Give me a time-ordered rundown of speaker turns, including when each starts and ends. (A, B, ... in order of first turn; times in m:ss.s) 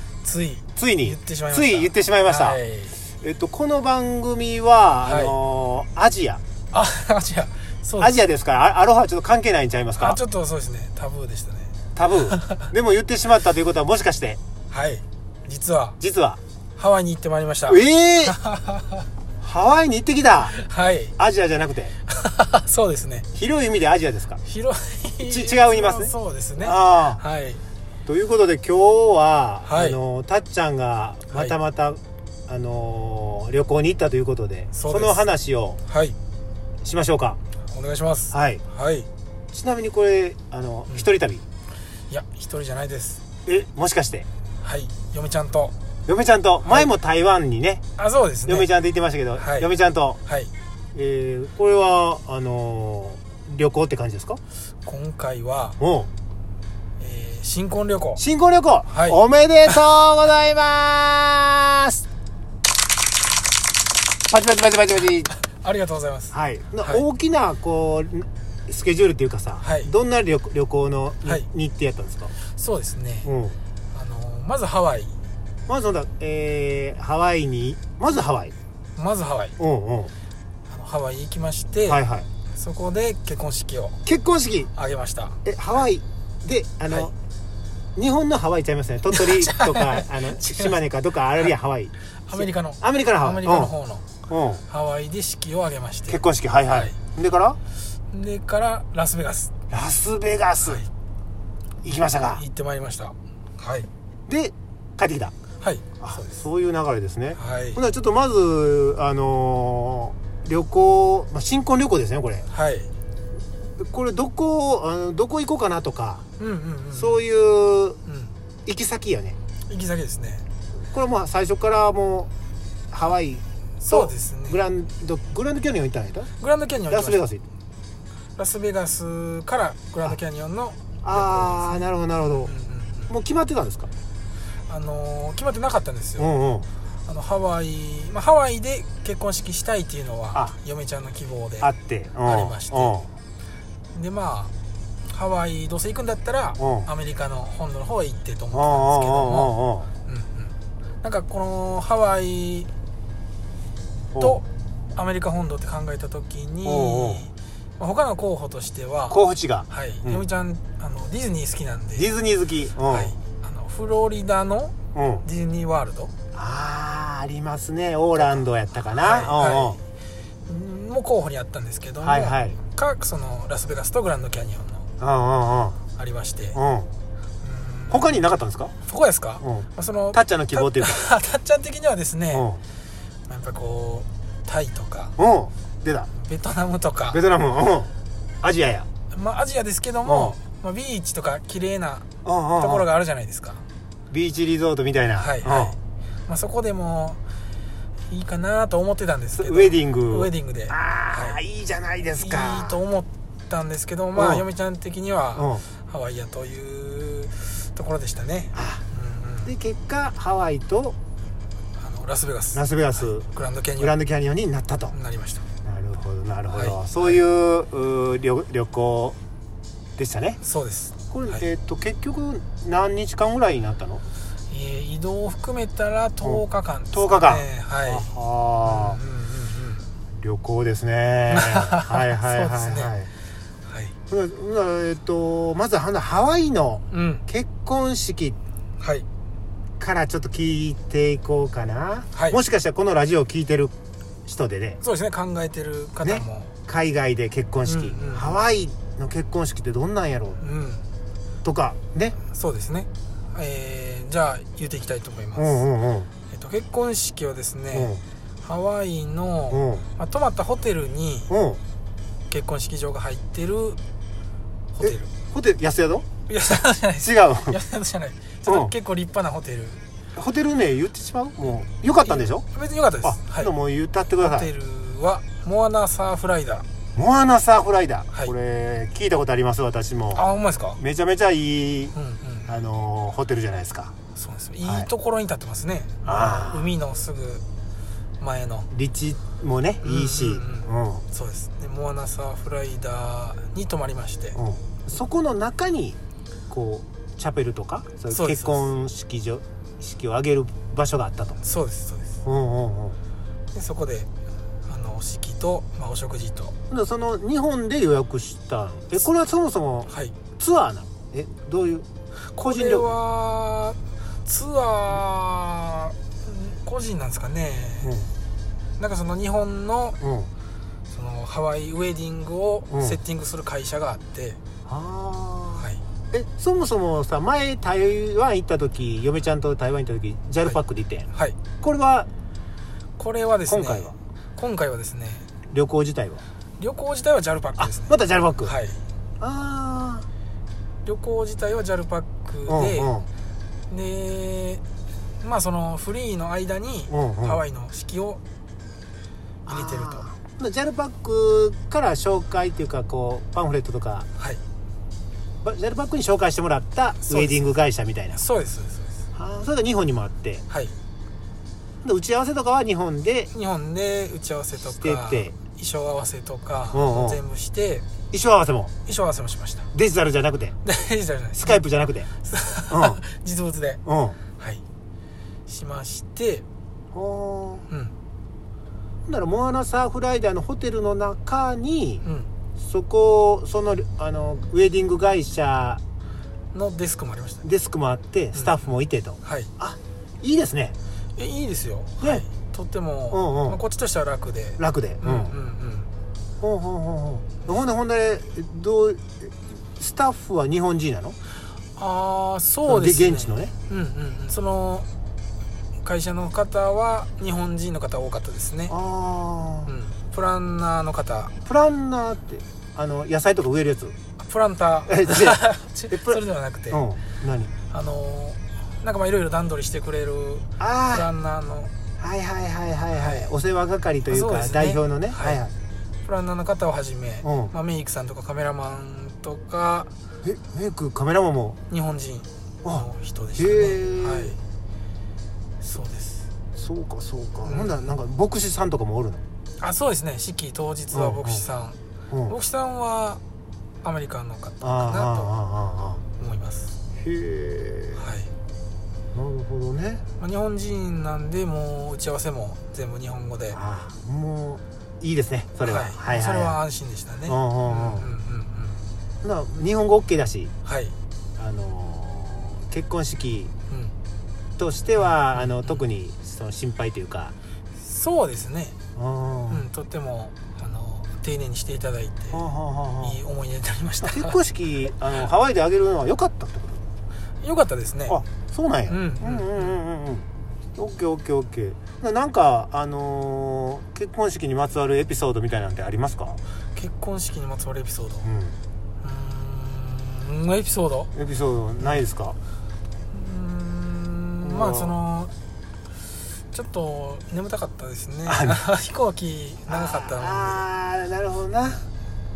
0:00.2-0:03.0 A
0:00.8-0:02.6 B
0:03.2-0:06.4 B
0:05.0-0:05.4 A
0:06.7-0:08.2 A
0:08.0-0:10.2 B
0:10.0-0:12.6 A
0:12.0-0:14.4 B
0:14.7-0:16.0 A
0:16.0-0:16.4 B
0:16.8-0:19.1 A
0:17.7-0:18.4 B
0:19.4-0:20.6 B
0:20.5-0:21.2 A
0:21.2-0:22.0 B
0:22.1-0:23.3 A
0:23.3-0:24.4 B
0:24.4-0:27.6 A
0:25.2-0:27.2 B
0:28.1-0:35.8 B
0:29.6-0:30.0 A
0:34.7-0:35.2 A
0:35.9-0:36.2 A
0:36.8-0:37.4 B
0:37.7-0:39.1 A
0:38.3-0:38.6 B
0:39.5-0:41.4 B
0:42.1-0:43.2 A
0:43.5-0:44.3 B
0:44.6-0:45.8 A
0:46.1-0:47.8 B
0:48.0-0:48.7 A
0:48.5-0:50.2 B
0:49.4-0:49.7 A
0:50.3-0:50.5 A
0:50.9-0:54.4 B
0:54.8-0:55.8 A
0:55.8-0:56.1 B
0:57.0-0:58.2 A
0:58.2-1:02.0 B
0:58.9-0:59.8 A
1:04.3-1:05.3 B
1:05.4-1:07.0 A
1:06.3-1:12.3 B
1:09.6-1:09.9 A
1:12.4-1:13.3 A
1:13.2-1:13.6 B
1:13.9-1:15.2 A
1:15.7-1:18.5 B
1:19.0-1:19.6 A
1:19.6-1:20.1 B
1:20.7-1:22.0 A
1:21.9-1:22.3 B
1:22.5-1:24.0 A
1:24.0-1:24.7 B
1:24.7-1:25.4 A
1:25.4-1:27.1 B
1:28.0-1:33.7 B
1:29.2-1:30.8 A
1:32.3-1:34.1 A
1:34.3-1:34.6 B
1:34.7-1:36.9 A
1:36.1-1:37.6 B
1:38.1-1:39.5 A
1:39.7-1:40.9 B
1:41.8-1:42.4 B
1:42.4-1:43.9 A
1:44.3-1:45.3 B
1:45.6-1:46.4 A
1:46.0-1:52.5 B
1:47.4-1:47.8 A
1:52.5-1:52.9 A
1:53.8-1:56.2 B
1:56.4-1:57.2 A
1:56.9-1:58.0 B
1:58.1-1:58.3 A
1:58.7-1:59.4 B
1:59.7-2:00.4 A
2:00.9-2:02.3 B
2:02.9-2:06.3 B
2:03.8-2:04.6 A
2:06.4-2:07.2 A
2:06.9-2:07.4 B
2:08.4-2:11.8 A
2:11.0-2:12.5 B
2:12.4-2:13.1 A
2:13.1-2:13.9 B
2:14.7-2:16.3 A
2:16.2-2:16.7 B
2:17.1-2:21.7 A
2:21.6-2:23.1 B
2:22.2-2:22.9 A
2:23.9-2:24.5 A
2:25.1-2:29.5 A
2:26.6-2:26.9 B
2:28.5-2:29.9 B
2:30.1-2:32.7 A
2:34.1-2:34.4 B
2:34.2-2:42.1 A
2:36.6-2:37.3 B
2:39.1-2:40.2 B
2:42.0-2:43.2 B
2:42.9-2:46.1 A
2:44.9-2:45.2 B
2:46.3-2:49.8 B
2:48.9-2:49.8 A
2:50.5-2:54.9 A
2:52.0-2:52.6 B
2:55.0-2:55.8 B
2:56.0-2:56.6 A
2:56.5-2:56.9 B
2:57.4-2:58.2 A
2:57.9-2:58.7 B
2:58.9-3:02.5 A
2:59.4-3:01.0 B
3:02.3-3:02.6 B
3:03.3-3:05.2 A
3:05.2-3:06.1 B
3:06.2-3:07.2 A
3:07.1-3:07.9 B
3:08.4-3:08.9 B
3:09.1-3:12.1 A
3:10.0-3:10.4 B
3:12.2-3:12.9 B
3:12.6-3:13.6 A
3:14.1-3:15.8 B
3:15.2-3:17.2 A
3:18.1-3:21.4 A
3:19.4-3:22.8 B
3:22.2-3:29.5 A
3:24.2-3:24.4 B
3:25.4-3:25.6 B
3:28.5-3:28.8 B
3:29.4-3:31.0 B
3:31.8-3:32.6 A
3:32.6-3:35.0 B
3:33.2-3:34.0 A
3:34.9-3:35.4 A
3:35.6-3:39.2 B
3:36.5-3:37.2 A
3:40.0-3:40.4 B
3:40.4-3:41.4 A
3:41.1-3:44.0 B
3:44.5-3:48.1 A
3:46.2-3:49.0 B
3:48.6-3:49.8 A
3:50.2-3:53.1 B
3:51.3-3:52.9 A
3:53.7-3:54.0 A
3:54.1-3:58.4 B
3:56.9-3:57.2 A
3:58.8-3:59.1 A
3:59.8-4:03.7 B
4:04.3-4:04.8 B
4:04.8-4:06.5 A
4:06.0-4:10.4 B
4:07.7-4:08.4 A
4:10.4-4:10.9 A
4:11.4-4:12.2 B
4:12.3-4:15.6 A
4:15.4-4:16.1 B
4:16.3-4:21.3 A
4:17.7-4:18.0 B
4:19.5-4:19.9 B
4:21.3-4:21.6 B
4:22.3-4:23.8 A
4:24.7-4:25.1 A
4:24.8-4:26.1 B
4:26.3-4:29.8 A
4:27.0-4:27.6 B
4:28.5-4:28.7 B
4:30.2-4:32.5 B
4:32.0-4:33.5 A
4:33.0-4:34.5 B
4:34.2-4:36.7 A
4:37.0-4:40.2 B
4:40.1-4:40.8 A
4:40.8-4:42.0 B
4:41.9-4:42.5 A
4:42.5-4:43.9 B
4:44.2-4:47.4 A
4:44.6-4:44.9 B
4:46.0-4:46.7 B
4:48.2-4:48.7 A
4:48.7-4:51.0 B
4:49.8-4:54.4 A
4:54.4-4:56.0 B
4:56.5-5:01.4 B
4:58.1-4:58.6 A
5:01.4-5:02.2 A
5:02.2-5:03.0 B
5:03.5-5:04.1 A
5:04.7-5:06.6 A
5:06.7-5:11.9 B
5:09.9-5:10.2 A
5:12.3-5:18.0 A
5:12.4-5:12.9 B
5:17.8-5:18.1 B
5:18.8-5:20.0 A
5:20.0-5:20.3 B
5:20.9-5:24.4 A
5:22.7-5:23.0 B
5:24.7-5:31.1 B
5:31.1-5:31.4 A
5:31.6-5:32.1 B
5:33.0-5:35.3 A
5:33.5-5:33.9 B
5:35.5-5:36.2 B
5:36.6-5:38.8 A
5:37.6-5:38.5 B
5:39.2-5:40.1 B
5:40.8-5:43.0 A
5:42.5-5:43.1 B
5:43.7-5:44.6 A
5:45.2-5:48.2 A
5:46.9-5:47.4 B
5:49.5-5:54.1 B
5:49.5-5:50.1 A
5:55.4-5:58.2 B
5:57.0-5:57.5 A
5:58.1-5:59.0 A
5:59.1-6:00.4 B
6:00.5-6:00.7 A
6:01.8-6:03.3 B
6:03.3-6:07.9 A
6:04.8-6:05.3 B
6:06.7-6:07.2 B
6:08.1-6:08.7 B
6:08.9-6:09.7 A
6:09.7-6:10.6 B
6:10.6-6:11.6 A
6:11.4-6:12.1 B
6:12.2-6:13.8 A
6:12.7-6:13.0 B
6:13.9-6:14.2 B
6:15.5-6:16.4 A
6:16.9-6:17.7 B
6:19.1-6:22.0 B
6:22.0-6:22.3 A
6:22.6-6:25.8 B
6:26.5-6:27.4 A
6:27.4-6:30.8 B
6:29.2-6:29.5 A
6:31.2-6:35.9 A
6:33.1-6:33.6 B
6:34.6-6:35.4 B
6:36.4-6:41.2 B
6:41.8-6:44.9 A
6:42.7-6:43.5 B
6:45.8-6:48.8 A
6:48.7-6:49.7 B
6:49.7-6:51.3 A
6:51.4-6:54.0 B
6:54.2-6:56.8 A
6:54.9-6:57.5 B
6:57.7-7:01.7 A
7:00.6-7:01.1 B
7:02.0-7:05.5 B
7:02.9-7:03.3 A
7:04.0-7:05.4 A
7:06.0-7:09.9 A
7:07.2-7:07.5 B
7:10.2-7:11.6 B
7:11.7-7:14.4 A
7:13.4-7:14.4 B
7:15.6-7:16.3 A
7:16.6-7:19.2 B
7:17.4-7:17.9 A
7:19.6-7:21.8 A
7:20.9-7:21.4 B
7:22.3-7:23.2 A
7:23.8-7:25.3 A
7:24.6-7:26.0 B
7:26.2-7:26.7 A
7:27.0-7:28.0 B
7:28.0-7:28.3 A
7:29.1-7:30.0 B
7:30.2-7:33.6 A
7:33.5-7:36.6 B
7:35.6-7:38.8 A
7:37.3-7:38.1 B
7:39.2-7:40.5 B
7:40.6-7:41.0 A
7:41.4-7:43.5 B
7:43.7-7:44.0 A
7:44.6-7:47.3 B
7:45.0-7:45.8 A
7:47.8-7:48.8 A
7:49.0-7:49.6 B
7:49.5-7:52.4 A
7:52.3-7:53.2 B
7:53.0-7:54.4 A
7:54.0-7:56.8 B
7:57.4-7:58.2 A
7:58.1-8:06.4 B
7:58.9-7:59.8 A
8:06.8-8:08.3 A
8:08.2-8:08.6 B
8:09.0-8:11.1 A
8:11.1-8:12.4 B
8:13.1-8:15.3 A
8:14.4-8:14.9 B
8:16.5-8:20.7 A
8:18.3-8:18.6 B
8:19.7-8:21.9 B